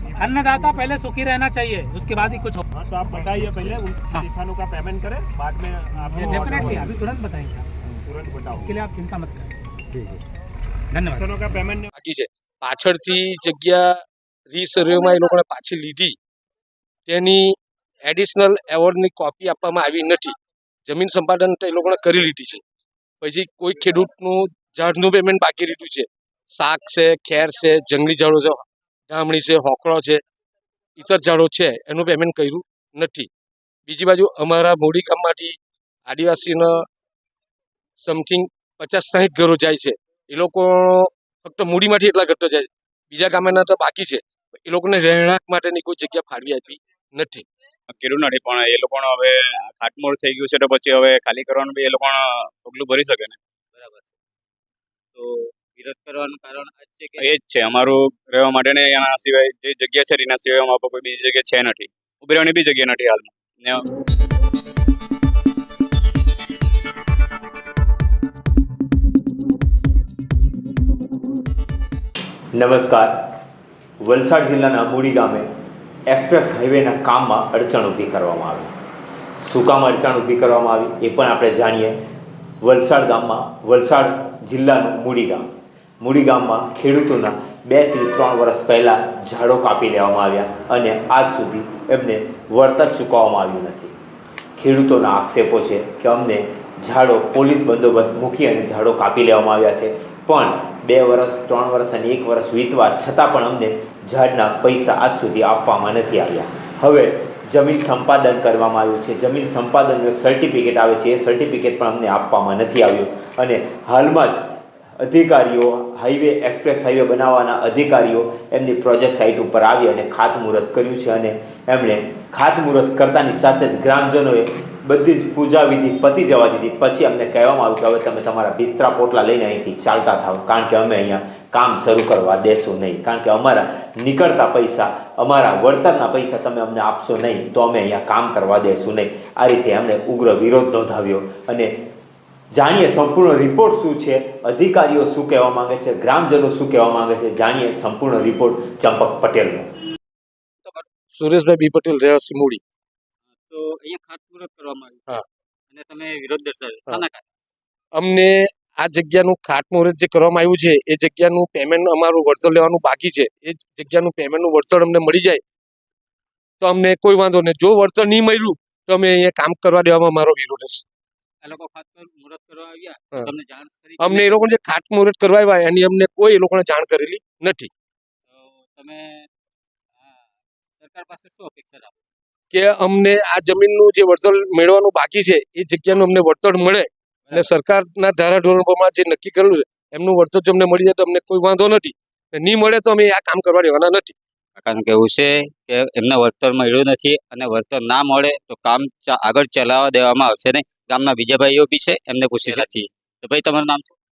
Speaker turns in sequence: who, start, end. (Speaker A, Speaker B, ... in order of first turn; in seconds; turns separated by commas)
Speaker A: 0.1-3.4, Speaker B: 2.7-6.9, Speaker A: 6.0-7.7, Speaker B: 8.1-8.7, Speaker A: 8.5-9.5, Speaker A: 10.9-11.6, Speaker B: 11.1-11.9, Speaker C: 11.9-16.1, Speaker C: 17.1-20.3, Speaker C: 20.9-22.6, Speaker C: 23.2-30.2, Speaker C: 30.9-33.3, Speaker C: 33.9-35.5, Speaker C: 36.1-36.8, Speaker C: 38.0-47.4, Speaker D: 47.9-53.4, Speaker E: 53.8-54.1, Speaker E: 55.1-57.2, Speaker D: 57.2-63.8, Speaker F: 72.5-73.1, Speaker F: 74.0-75.5, Speaker F: 76.1-78.7, Speaker F: 79.4-82.0, Speaker F: 82.6-85.5, Speaker F: 86.0-93.9, Speaker F: 94.6-114.4, Speaker F: 115.0-141.7, Speaker F: 142.5-149.7, Speaker C: 151.1-152.6, Speaker E: 153.4-155.1, Speaker E: 155.7-157.2, Speaker C: 157.9-165.4, Speaker C: 166.6-170.8, Speaker E: 171.4-174.5, Speaker C: 174.0-177.7, Speaker E: 178.3-179.3, Speaker E: 180.8-181.9, Speaker C: 182.5-194.1, Speaker E: 194.6-203.9